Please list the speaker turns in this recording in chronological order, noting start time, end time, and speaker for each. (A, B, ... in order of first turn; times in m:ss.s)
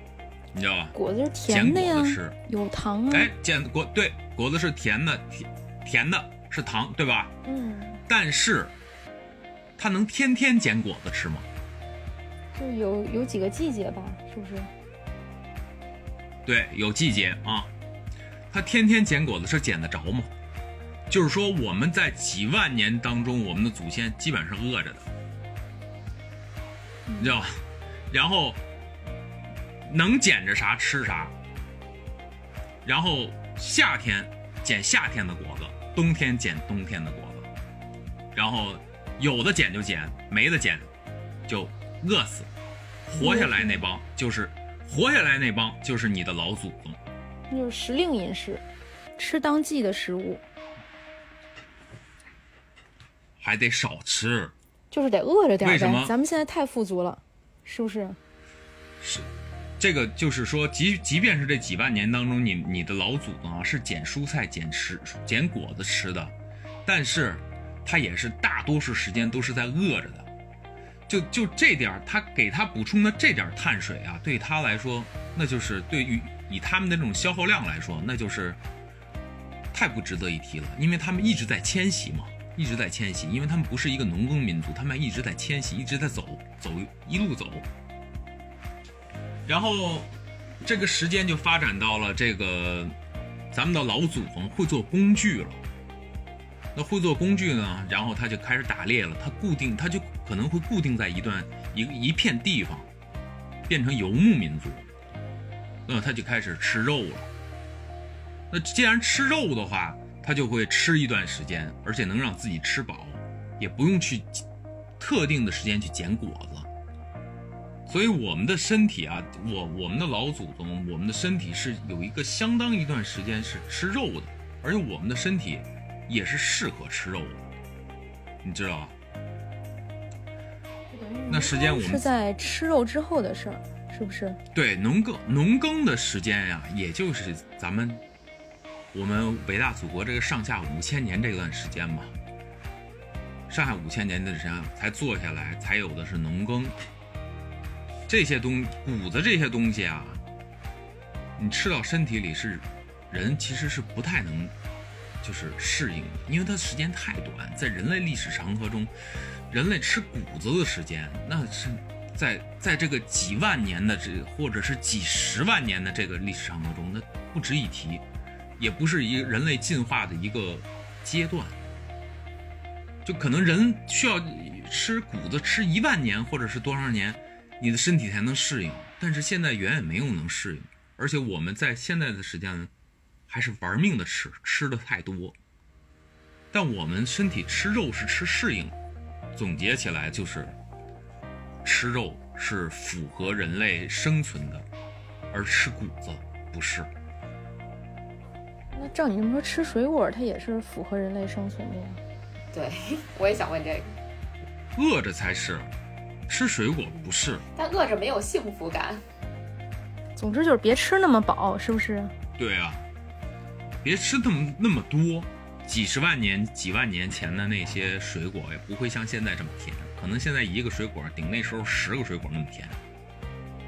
0:00.5-0:01.0 A
0:01.0-0:03.3 B
0:01.5-0:02.4 A
0:03.1-0:07.3 A
0:07.5-0:08.0 B
0:08.1-0:08.7 A
0:09.8-0:11.5 A
0:12.6-0:14.7 B
0:16.5-0:17.7 A
0:18.5-0:20.3 A
0:21.1-0:25.1 A
0:27.1-0:27.4 B
0:27.2-0:28.6 A
0:29.9-0:31.3 A
0:32.8-0:37.5 A
0:38.3-0:40.9 A
0:41.5-0:42.5 A
0:43.1-0:47.0 A
0:43.2-0:43.8 B
0:47.5-0:48.6 B
0:49.2-0:50.4 B
0:53.4-0:54.5 A
0:54.9-0:58.2 B
0:55.6-0:56.1 A
0:59.0-0:59.3 A
0:59.8-1:06.3 A
1:06.8-1:10.3 A
1:11.1-1:18.6 A
1:19.7-1:27.6 A
1:29.5-1:30.1 A
1:30.6-1:33.0 A
1:33.5-1:35.6 A
1:36.8-1:42.9 A
1:43.7-1:44.9 A
1:45.9-1:47.3 A
1:48.5-1:54.4 A
1:55.0-1:56.7 A
1:57.9-2:07.5 A
2:08.4-2:08.9 A
2:10.9-2:14.4 B
2:11.3-2:12.1 A
2:14.5-2:18.0 A
2:18.9-2:22.1 A
2:23.5-2:26.8 A
2:28.1-2:30.2 A
2:31.4-2:34.5 A
2:35.2-2:38.9 A
2:39.5-2:48.0 A
2:48.6-2:51.6 A
2:53.0-3:02.7 A
3:03.3-3:05.4 A
3:06.5-3:08.7 A
3:09.3-3:10.6 A
3:11.6-3:14.6 A
3:15.3-3:16.9 A
3:18.7-3:22.0 B
3:22.5-3:24.0 C
3:24.8-3:25.7 A
3:26.3-3:27.4 A
3:26.9-3:29.0 C
3:30.2-3:32.1 B
3:32.4-3:32.8 A
3:33.8-3:42.8 A